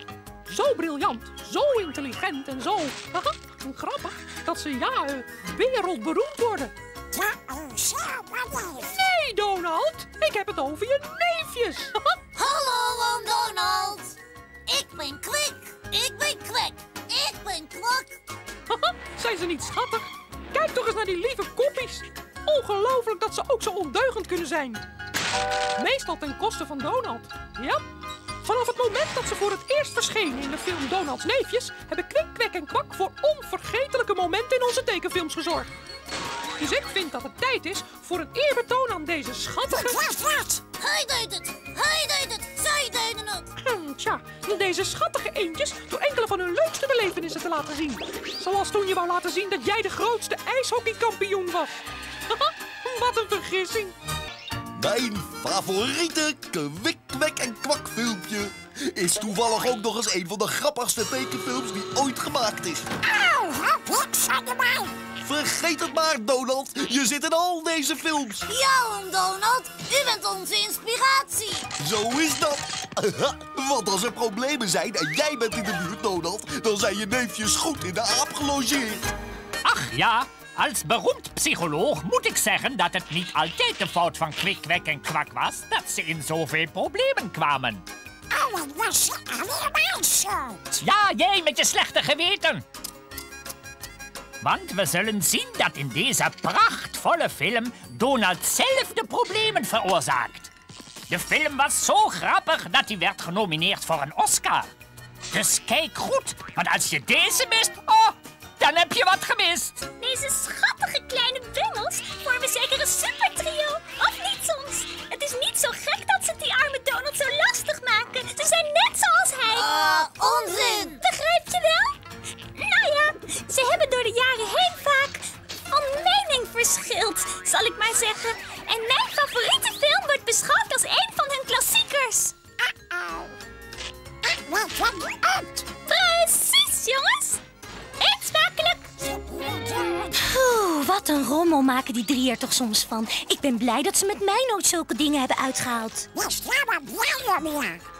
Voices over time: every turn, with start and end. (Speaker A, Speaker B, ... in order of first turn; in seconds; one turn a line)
Speaker A: 0.5-6.7
Speaker B: 7.1-8.7
Speaker A: 8.8-12.2
Speaker B: 12.3-14.2
Speaker B: 14.7-18.1
Speaker A: 18.7-24.8
Speaker A: 25.8-27.8
Speaker A: 28.4-35.7
Speaker A: 36.6-40.2
Speaker B: 40.1-43.5
Speaker A: 43.6-53.9
Speaker C: 54.8-62.8
Speaker B: 63.2-64.9
Speaker C: 65.2-68.5
Speaker B: 68.5-71.7
Speaker C: 71.8-79.1
Speaker D: 79.6-87.8
Speaker B: 88.3-90.6
Speaker D: 90.8-92.6
Speaker D: 94.4-100.5
Speaker D: 101.1-104.7
Speaker D: 105.3-109.8
Speaker E: 109.9-119.6
Speaker B: 119.5-121.0
Speaker E: 121.0-121.9
Speaker E: 122.6-132.3
Speaker E: 135.8-137.4
Speaker E: 138.0-138.8
Speaker E: 140.2-146.1
Speaker B: 146.2-147.7